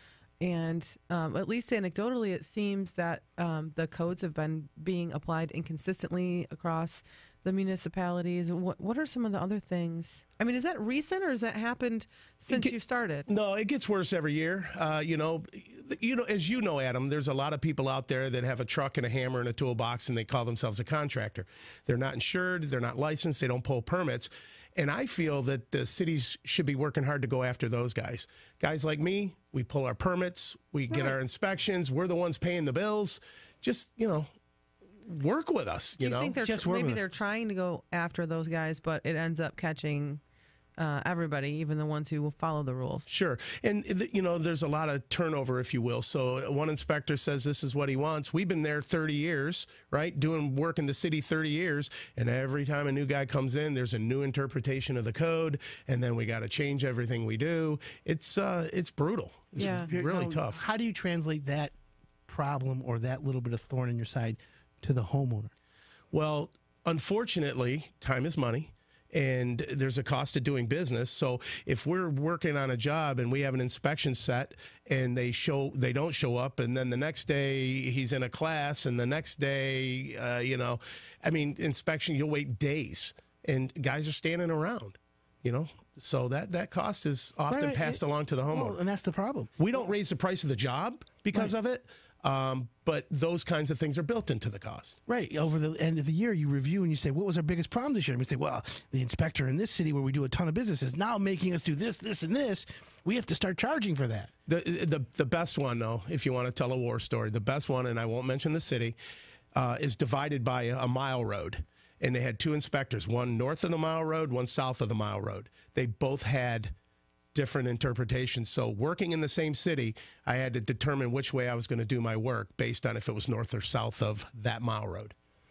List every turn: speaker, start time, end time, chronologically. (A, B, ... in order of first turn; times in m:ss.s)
0:00.4-0:13.3 A
0:12.5-0:12.7 B
0:13.3-0:34.3 B
0:30.9-0:31.2 C
0:35.0-0:36.4 B
0:36.0-0:40.2 A
0:36.4-0:37.0 C
0:40.8-0:43.1 A
0:43.1-1:00.6 B
0:59.6-1:01.7 C
0:59.6-0:59.9 A
1:02.3-1:05.5 C
1:06.1-1:28.8 B
1:27.5-1:29.6 C
1:29.6-1:35.0 B
1:35.1-1:44.3 C
1:44.5-1:49.0 B
1:49.5-1:56.7 B
1:57.3-2:05.1 B